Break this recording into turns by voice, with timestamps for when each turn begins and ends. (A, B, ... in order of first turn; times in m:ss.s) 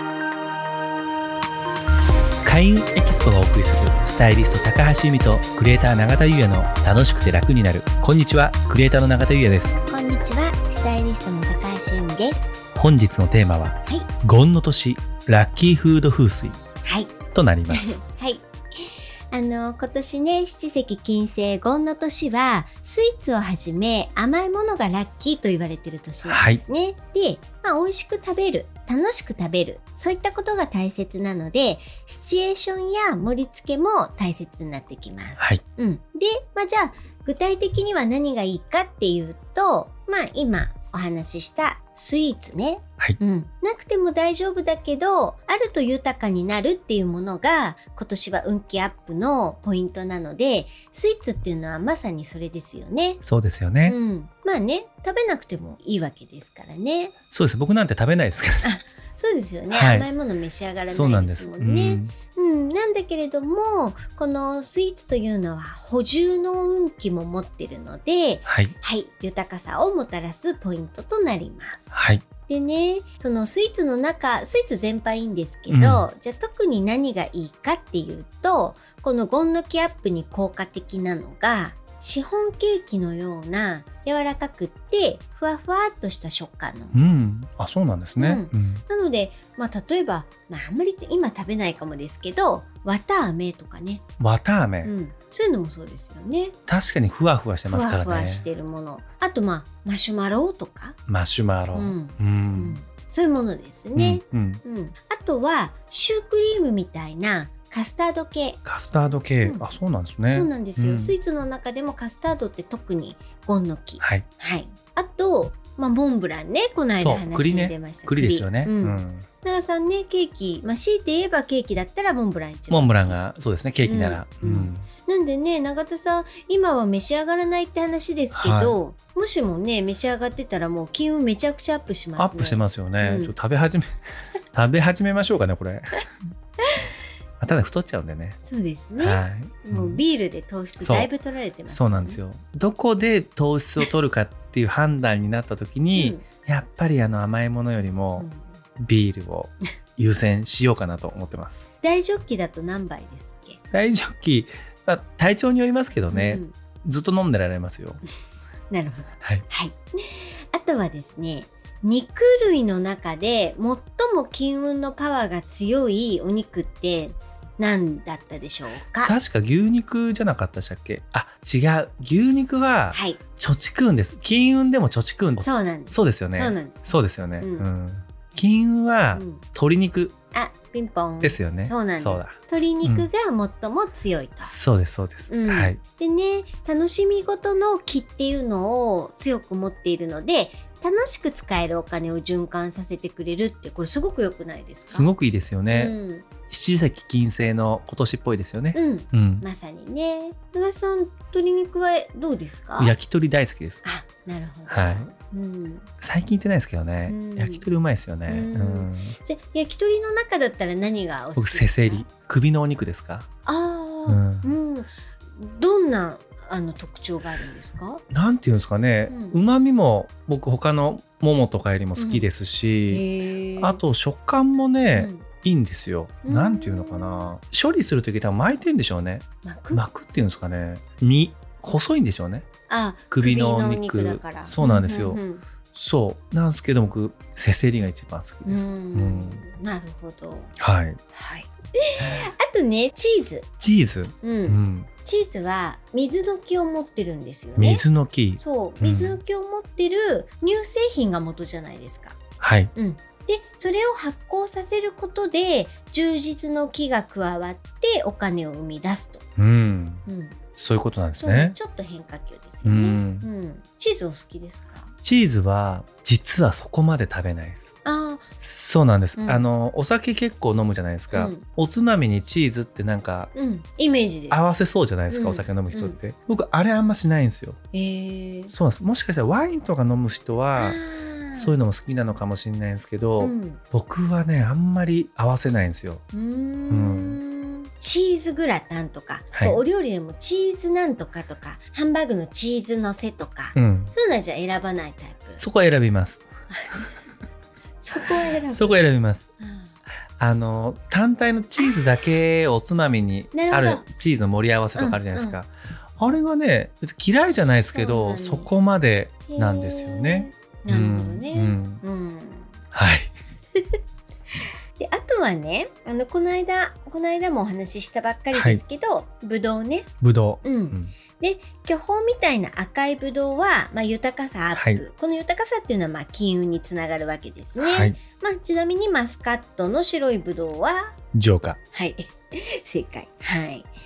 0:02.4-0:09.8 A
0:09.8-0:12.5 B
0:12.8-0:16.6 A
0:16.8-0:17.1 B
0:17.3-0:17.9 A
0:17.7-0:53.2 B
0:26.2-0:26.6 A
0:53.2-0:54.0 A
0:53.8-0:57.1 B
0:57.3-0:58.7 A
0:58.6-1:27.0 B
0:59.7-1:00.1 A
1:00.9-1:02.1 A
1:08.4-1:08.7 A
1:11.9-1:12.2 A
1:15.7-1:16.1 A
1:26.9-1:28.8 A
1:28.2-1:34.0 B
1:34.2-1:34.9 A
1:34.8-1:36.6 B
1:36.7-1:38.4 A
1:37.7-1:41.0 B
1:41.1-1:42.8 A
1:41.7-1:48.6 B
1:44.0-1:44.6 A
1:48.6-1:51.1 A
1:50.3-2:03.2 B
1:54.0-1:54.2 A
1:57.0-1:59.2 A
2:02.7-2:04.9 A
2:03.8-2:13.3 B
2:08.3-2:08.8 A
2:12.2-2:13.9 A
2:14.5-2:16.0 A
2:17.4-2:18.4 A
2:18.4-2:22.2 B
2:19.0-2:20.0 A
2:20.8-2:21.1 A
2:21.7-2:28.3 A
2:25.9-2:26.2 B
2:28.2-2:28.6 B
2:28.8-2:31.7 A
2:31.8-2:33.6 B
2:33.7-2:38.0 A
2:36.1-2:36.5 B
2:38.7-2:49.1 B
2:49.0-3:00.1 A
2:52.9-2:53.2 B
2:55.4-2:57.7 B
2:59.1-2:59.4 B
3:00.3-3:04.5 B
3:01.2-3:03.1 A
3:04.4-3:05.8 A
3:05.3-3:15.1 B
3:14.9-3:15.9 A
3:15.7-3:16.3 B
3:16.5-3:19.4 A
3:18.7-3:22.9 B
3:22.8-3:23.8 A
3:23.8-3:25.8 B
3:24.7-3:25.1 A
3:26.0-3:29.2 A
3:27.1-3:27.6 B
3:28.3-3:32.0 B
3:31.4-3:33.2 A
3:33.4-3:38.0 B
3:34.1-3:34.5 A
3:38.1-3:43.0 A
3:39.1-3:39.4 B
3:42.0-3:42.2 B
3:42.9-3:43.8 B
3:43.6-3:52.4 A
3:44.9-3:45.3 B
3:46.2-3:47.3 B
3:49.4-3:49.8 B
3:52.7-3:55.4 B
3:53.1-3:55.2 A
3:55.7-3:59.4 A
3:58.4-4:00.5 B
4:00.6-4:01.0 A
4:01.1-4:03.5 B
4:03.6-4:04.9 A
4:04.2-4:07.8 B
4:07.6-4:09.2 A
4:08.4-4:12.2 B
4:12.4-4:12.7 A
4:12.7-4:19.2 B
4:19.4-4:20.0 A
4:20.0-4:20.4 B
4:20.6-4:21.6 A
4:21.2-4:24.9 B
4:22.6-4:23.3 A
4:25.0-4:27.7 A
4:27.8-4:28.3 B
4:28.4-4:33.3 A
4:29.2-4:29.5 B
4:31.1-4:31.4 B
4:33.3-4:34.4 B
4:34.3-4:37.6 A
4:35.1-4:36.0 B
4:37.7-4:38.5 B
4:38.5-4:40.8 A
4:40.5-4:41.5 B
4:41.4-4:46.0 A
4:43.2-4:43.6 B
4:46.1-4:55.4 B
4:46.7-4:47.2 A
4:49.3-4:49.6 A
4:53.6-4:53.9 A
4:55.4-4:56.2 A
4:56.5-4:56.8 B
4:57.8-4:58.8 B
4:58.5-4:59.3 A
4:59.4-4:59.7 B
5:00.2-5:11.8 A
5:01.6-5:02.0 B
5:03.3-5:03.8 B
5:04.7-5:05.4 B
5:07.5-5:08.5 B
5:09.3-5:12.5 B
5:12.7-5:13.1 A
5:14.8-5:19.9 B
5:18.3-5:18.6 A
5:20.0-5:20.9 A
5:20.4-5:30.9 B
5:24.5-5:24.8 A
5:27.6-5:28.0 A
5:31.1-5:31.6 A
5:31.7-5:33.7 B